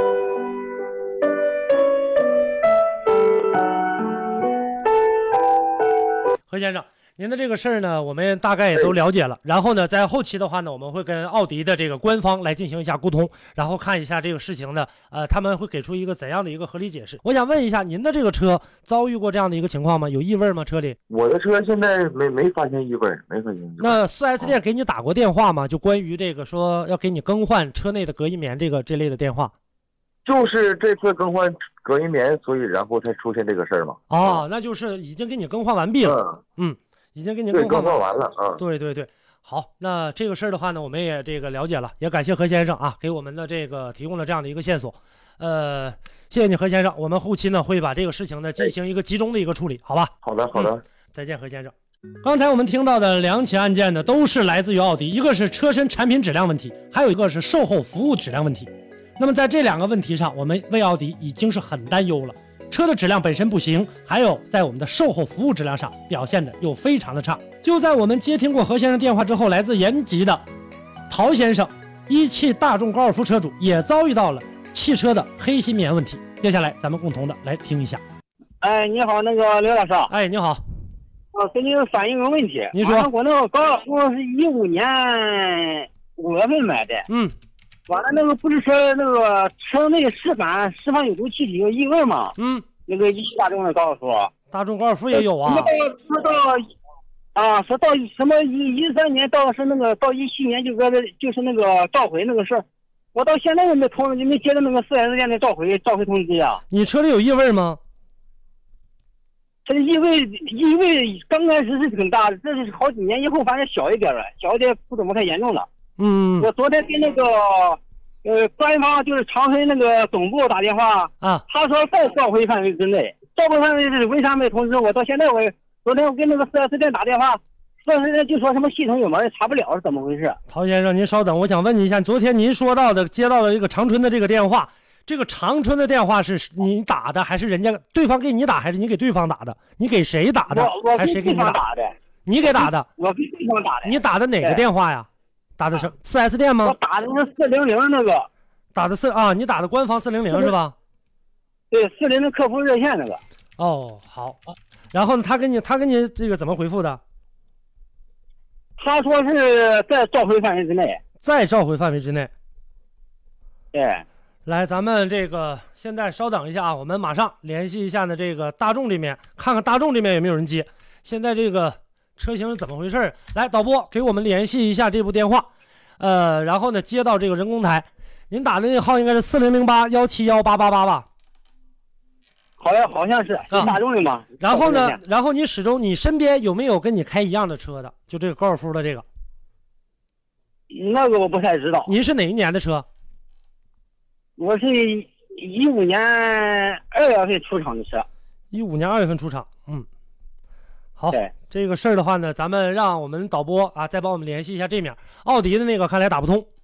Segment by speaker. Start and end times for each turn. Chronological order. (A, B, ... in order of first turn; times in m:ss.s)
0:06.5-0:21.0 A
0:21.1-0:24.6 B
0:23.8-0:29.5 A
0:30.2-0:34.4 B
0:34.1-0:38.0 A
0:36.0-0:36.4 B
0:37.5-0:38.6 B
0:38.6-1:10.4 A
0:50.2-0:50.8 B
1:11.1-1:18.0 A
1:18.6-1:20.1 C
1:20.1-1:20.6 A
1:21.3-1:27.1 C
1:22.7-1:23.1 A
1:27.1-1:27.3 A
1:27.9-1:32.3 C
1:32.4-1:32.6 A
1:32.9-1:34.3 C
1:34.5-1:35.7 A
1:35.4-1:36.6 C
1:37.4-1:46.6 C
1:46.7-1:47.8 A
1:49.6-1:55.7 C
1:56.0-1:56.5 A
1:56.4-2:10.4 C
2:10.5-2:21.6 A
2:20.5-2:24.6 C
2:22.3-2:22.9 A
2:23.8-2:26.8 A
2:26.6-2:28.3 C
2:28.8-2:30.8 A
2:31.7-2:33.2 C
2:33.6-2:37.0 A
2:38.8-2:41.0 C
2:41.2-2:42.3 A
2:43.7-2:44.0 C
2:44.5-2:55.5 A
2:56.0-3:01.1 A
3:02.6-3:05.0 C
3:03.5-3:03.8 A
3:04.4-3:09.0 A
3:10.7-3:11.9 C
3:11.9-3:12.9 A
3:14.4-3:18.1 C
3:18.5-3:19.9 A
3:21.0-3:26.5 A